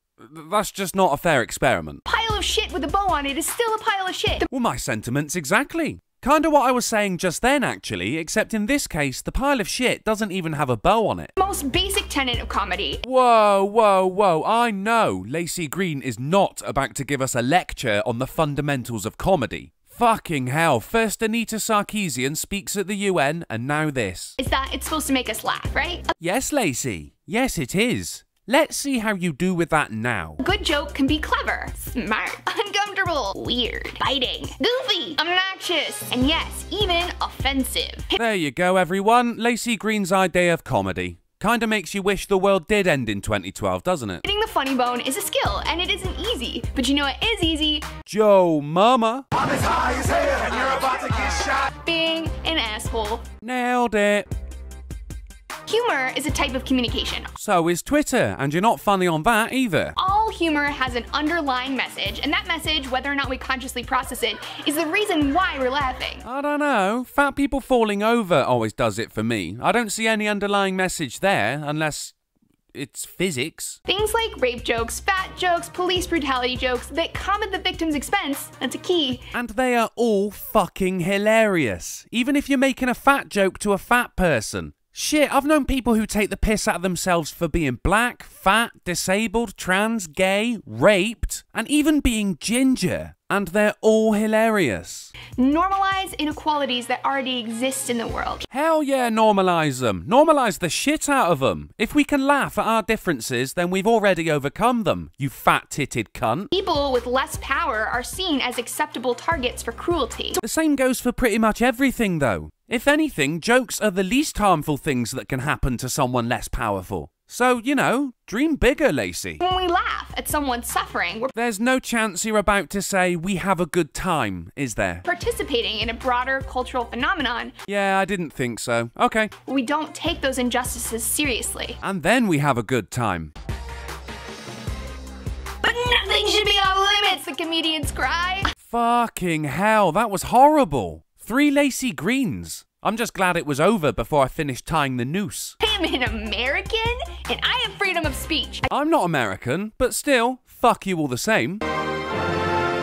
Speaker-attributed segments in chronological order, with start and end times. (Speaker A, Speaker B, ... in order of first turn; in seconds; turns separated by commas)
Speaker A: 0.2-2.0, Speaker B: 2.1-4.5, Speaker A: 4.5-11.3, Speaker B: 11.4-13.0, Speaker A: 13.0-24.3, Speaker B: 24.4-26.1, Speaker A: 26.2-30.4, Speaker B: 30.4-38.2, Speaker A: 38.1-44.2, Speaker B: 44.2-47.9, Speaker A: 48.0-50.3, Speaker B: 50.3-53.2, Speaker A: 53.4-54.3, Speaker B: 55.7-57.3, Speaker A: 57.4-59.9, Speaker B: 60.0-66.2, Speaker A: 66.2-72.1, Speaker A: 72.7-73.8, Speaker B: 73.9-79.3, Speaker A: 79.3-95.1, Speaker B: 95.4-98.5, Speaker A: 98.5-106.5, Speaker B: 106.5-110.4, Speaker A: 110.4-119.4, Speaker B: 119.4-121.3, Speaker A: 121.3-125.0, Speaker B: 125.0-127.5, Speaker A: 127.7-129.3, Speaker B: 129.5-131.8, Speaker A: 131.8-133.3, Speaker B: 135.6-138.5, Speaker A: 138.6-145.5, Speaker B: 145.6-148.7, Speaker A: 148.7-151.6